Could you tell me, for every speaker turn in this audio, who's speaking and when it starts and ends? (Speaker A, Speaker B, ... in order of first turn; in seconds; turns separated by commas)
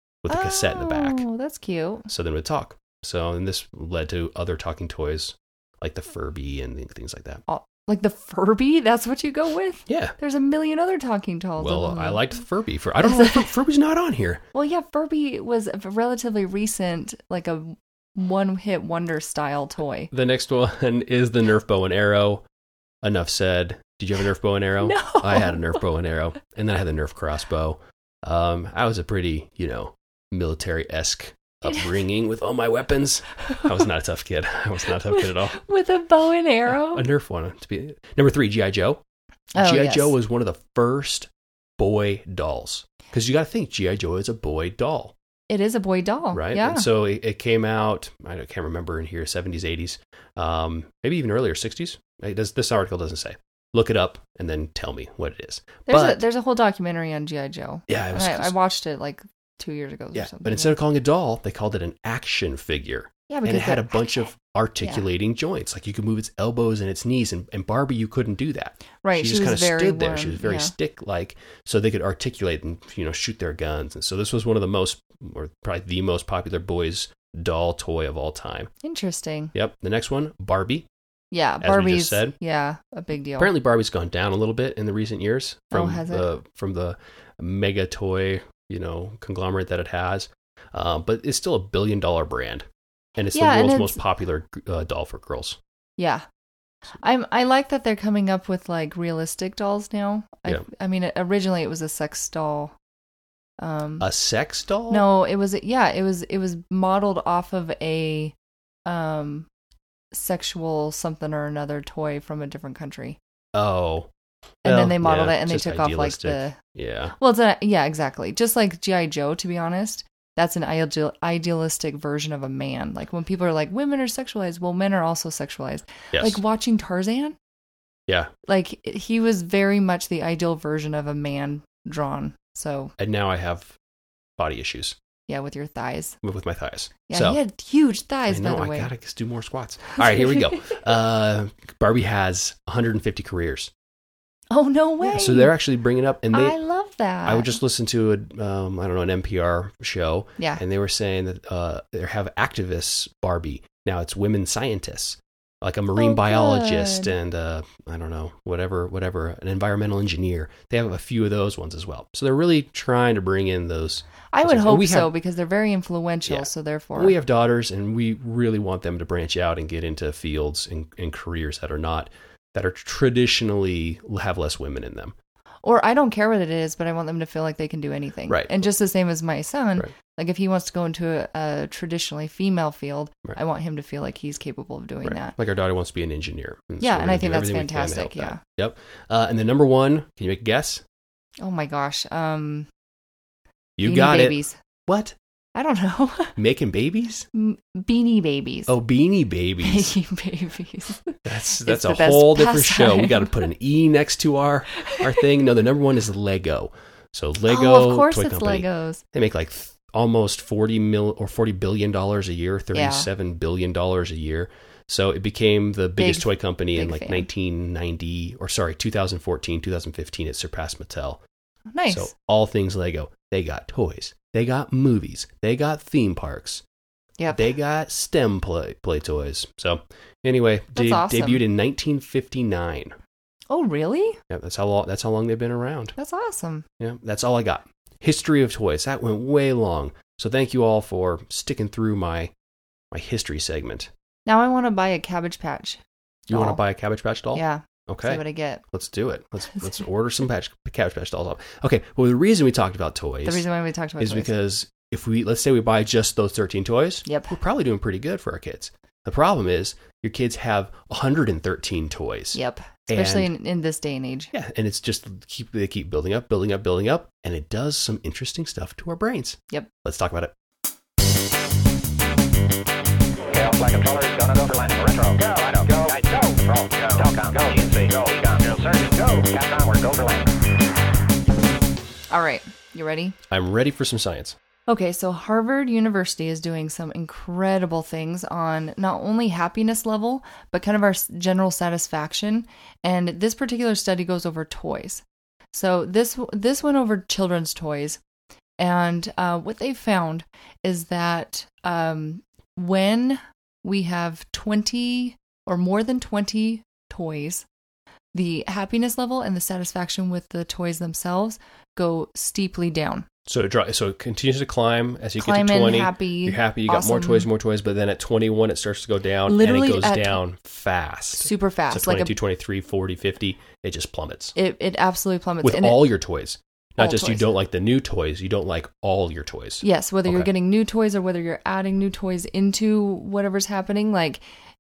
Speaker A: 0.2-1.2, Speaker B: 0.3-2.1, Speaker A: 2.1-7.4, Speaker B: 7.5-12.2, Speaker A: 9.9-10.2, Speaker A: 11.6-14.4, Speaker B: 13.0-13.5, Speaker B: 14.5-20.1, Speaker A: 20.1-22.4, Speaker A: 23.0-35.6, Speaker B: 24.8-25.8, Speaker B: 31.6-31.9, Speaker B: 33.4-33.8, Speaker B: 35.1-37.0, Speaker A: 36.7-39.0, Speaker B: 39.5-40.1, Speaker A: 39.6-45.1, Speaker B: 45.5-46.9, Speaker A: 46.3-56.2, Speaker B: 55.9-60.8, Speaker A: 57.9-58.5, Speaker A: 60.1-78.7, Speaker B: 63.3-65.1, Speaker B: 69.0-70.7, Speaker B: 78.8-79.5, Speaker A: 79.5-80.9, Speaker B: 81.3-83.5, Speaker A: 81.6-82.3, Speaker A: 83.4-95.6, Speaker B: 85.7-86.3, Speaker B: 93.3-94.0, Speaker B: 96.0-96.2, Speaker B: 97.0-102.7, Speaker B: 103.6-104.1, Speaker A: 104.0-105.1, Speaker B: 104.9-108.3, Speaker B: 108.9-109.5, Speaker B: 110.1-113.2, Speaker A: 113.5-114.1, Speaker B: 114.6-116.6, Speaker A: 114.6-117.2, Speaker B: 117.2-127.4, Speaker A: 126.1-126.4, Speaker B: 128.5-132.9, Speaker A: 133.0-133.8, Speaker A: 134.4-135.0, Speaker B: 135.3-136.2, Speaker A: 136.2-137.4, Speaker B: 137.1-138.9, Speaker A: 138.3-143.7, Speaker B: 140.0-140.8, Speaker B: 144.5-145.5, Speaker A: 145.0-146.6, Speaker B: 146.3-147.6, Speaker A: 147.2-165.1, Speaker B: 155.9-157.1, Speaker B: 164.3-167.2, Speaker A: 166.3-175.2, Speaker B: 175.6-185.3, Speaker A: 185.0-190.8, Speaker B: 186.8-188.4, Speaker B: 191.4-192.7, Speaker A: 193.8-195.2, Speaker B: 193.8-194.6, Speaker B: 195.6-196.4, Speaker A: 196.4-197.3, Speaker B: 197.3-198.7, Speaker A: 198.7-199.9, Speaker B: 199.6-203.4, Speaker A: 201.2-221.2, Speaker B: 207.5-209.0, Speaker B: 212.7-213.1, Speaker B: 216.0-217.3, Speaker B: 221.7-222.1, Speaker A: 221.9-226.6, Speaker B: 227.2-227.5, Speaker A: 227.3-233.0, Speaker B: 230.8-231.4, Speaker B: 233.5-234.2, Speaker A: 234.3-235.9, Speaker B: 236.0-236.7, Speaker A: 236.8-242.3, Speaker A: 242.9-243.9, Speaker B: 244.3-246.6, Speaker A: 246.3-253.4, Speaker B: 247.3-248.6, Speaker B: 253.2-254.3, Speaker A: 254.0-263.3, Speaker B: 257.1-257.4, Speaker B: 262.3-264.3, Speaker A: 264.3-270.3, Speaker C: 273.3-280.3, Speaker B: 282.1-283.2, Speaker A: 283.3-284.4, Speaker B: 284.7-298.0, Speaker B: 298.6-307.5, Speaker B: 308.1-313.1, Speaker A: 313.3-324.4, Speaker B: 315.2-317.3, Speaker B: 319.3-320.2, Speaker B: 321.2-322.1, Speaker B: 324.4-325.9, Speaker A: 325.4-330.3, Speaker B: 326.8-327.3, Speaker B: 329.6-334.2